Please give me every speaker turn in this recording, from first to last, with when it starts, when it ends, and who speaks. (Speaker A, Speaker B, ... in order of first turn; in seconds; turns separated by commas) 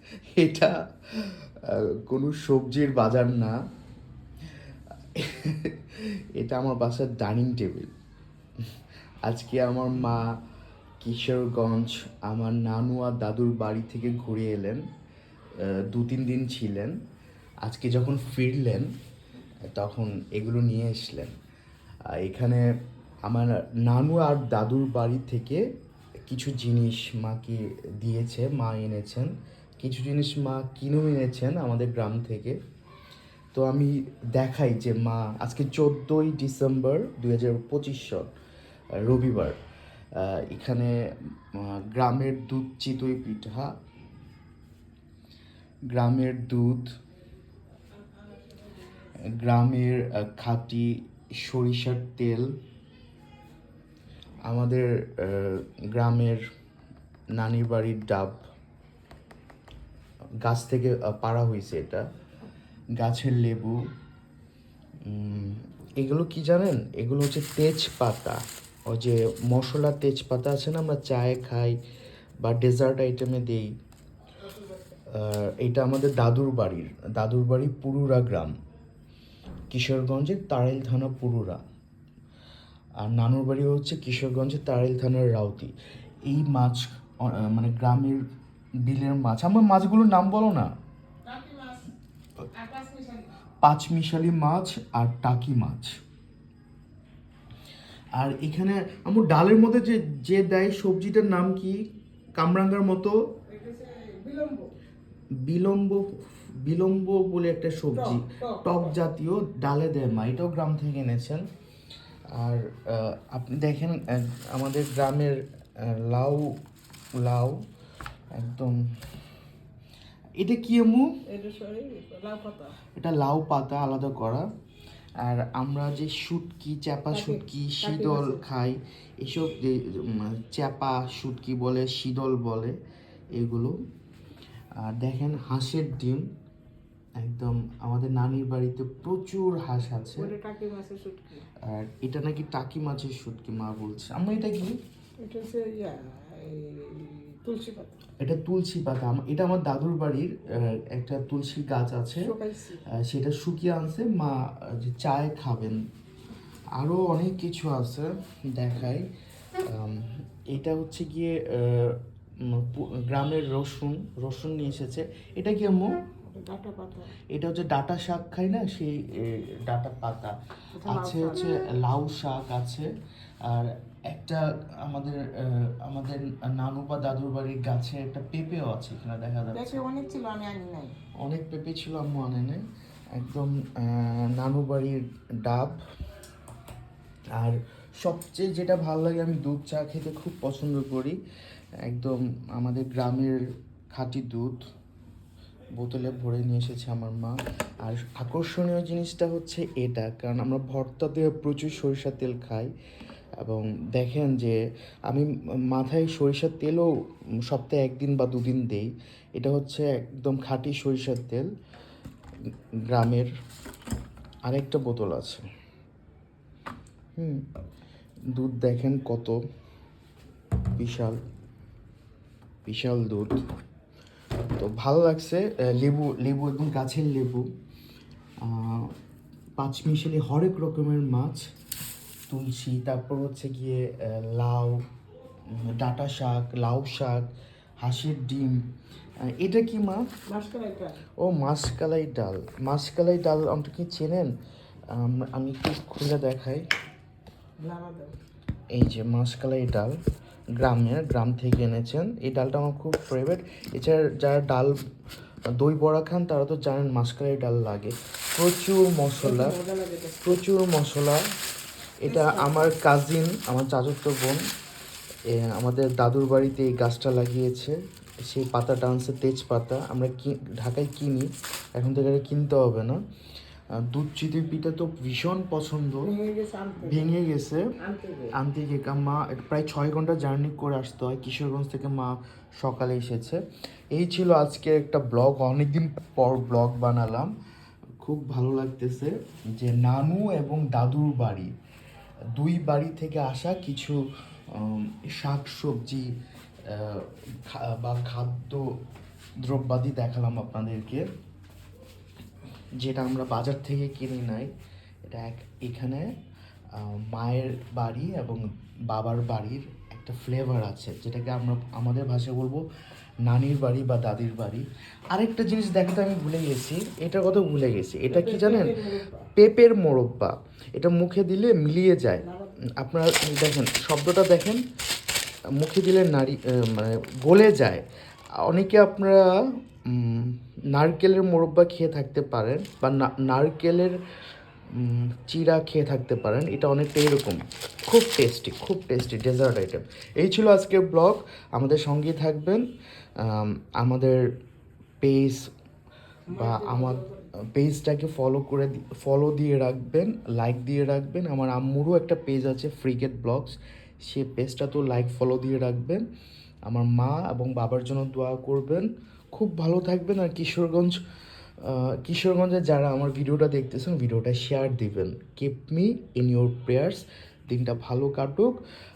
Speaker A: 0.3-3.6, Speaker A: 5.1-7.9, Speaker A: 9.2-10.3, Speaker A: 11.0-14.8, Speaker A: 15.6-16.9, Speaker A: 17.6-18.9, Speaker A: 19.7-21.3, Speaker A: 22.1-22.6, Speaker A: 23.2-25.6, Speaker A: 26.3-32.6, Speaker A: 33.5-38.3, Speaker A: 39.0-39.6, Speaker A: 40.1-40.9, Speaker A: 41.5-43.7, Speaker A: 45.9-46.9, Speaker B: 48.1-48.5, Speaker A: 49.0-52.5, Speaker A: 54.5-56.4, Speaker A: 57.4-58.5, Speaker A: 60.4-62.1, Speaker A: 63.0-63.8, Speaker A: 65.0-71.8, Speaker A: 72.4-73.7, Speaker A: 75.1-78.5, Speaker A: 79.7-81.6, Speaker A: 83.0-85.7, Speaker A: 86.3-88.2, Speaker A: 88.8-90.7, Speaker B: 91.2-91.9, Speaker B: 92.5-93.3, Speaker A: 93.6-96.0, Speaker A: 98.2-103.2, Speaker B: 103.5-104.7, Speaker A: 105.4-111.5, Speaker B: 107.9-109.0, Speaker A: 112.3-116.6, Speaker A: 117.2-117.6, Speaker A: 118.3-118.8, Speaker A: 120.4-121.1, Speaker B: 121.2-122.8, Speaker A: 123.0-124.5, Speaker A: 125.2-132.8, Speaker B: 127.1-128.4, Speaker A: 133.3-133.7, Speaker A: 134.8-136.3, Speaker A: 137.2-140.3, Speaker B: 140.1-141.5, Speaker A: 141.6-144.8, Speaker B: 145.2-148.0, Speaker A: 148.2-152.3, Speaker B: 152.2-152.8, Speaker A: 152.9-155.8, Speaker A: 156.8-159.1, Speaker A: 159.6-165.9, Speaker B: 166.2-167.1, Speaker A: 167.3-172.9, Speaker B: 170.7-171.6, Speaker A: 173.4-179.8, Speaker B: 179.5-180.9, Speaker A: 181.2-185.8, Speaker A: 187.3-191.2, Speaker A: 191.8-194.7, Speaker A: 195.8-202.7, Speaker A: 203.4-206.9, Speaker A: 207.4-211.5, Speaker A: 212.9-213.3, Speaker A: 214.5-215.4, Speaker A: 217.2-217.4, Speaker A: 218.3-219.4, Speaker A: 220.8-221.2, Speaker A: 222.7-223.4, Speaker A: 224.6-227.5, Speaker A: 228.4-228.9, Speaker A: 229.6-231.5, Speaker A: 232.3-234.8, Speaker A: 235.5-237.3, Speaker A: 237.8-238.7, Speaker A: 239.2-240.1, Speaker B: 240.3-241.0, Speaker A: 241.2-244.3, Speaker A: 244.9-246.7, Speaker B: 247.6-248.2, Speaker A: 248.7-249.9, Speaker A: 250.6-254.8, Speaker A: 255.6-259.6, Speaker B: 259.2-260.4, Speaker A: 260.2-261.3, Speaker A: 262.0-264.4, Speaker B: 262.0-262.7, Speaker A: 265.3-273.0, Speaker A: 273.7-276.1, Speaker B: 276.0-277.2, Speaker A: 276.8-277.7, Speaker B: 277.8-278.4, Speaker A: 278.3-283.4, Speaker A: 283.9-287.3, Speaker A: 288.0-291.5, Speaker A: 292.3-296.1, Speaker A: 296.6-298.7, Speaker A: 299.4-301.1, Speaker A: 302.8-304.5, Speaker A: 305.1-306.1, Speaker A: 306.7-312.6, Speaker A: 313.2-318.8, Speaker B: 318.1-319.3, Speaker A: 319.3-324.6, Speaker B: 322.2-322.6, Speaker A: 325.5-327.8, Speaker A: 328.4-334.0, Speaker A: 334.7-342.6, Speaker A: 343.2-344.2, Speaker A: 345.0-345.5, Speaker B: 346.3-347.3, Speaker A: 346.3-356.0, Speaker A: 356.7-361.0, Speaker A: 361.6-368.6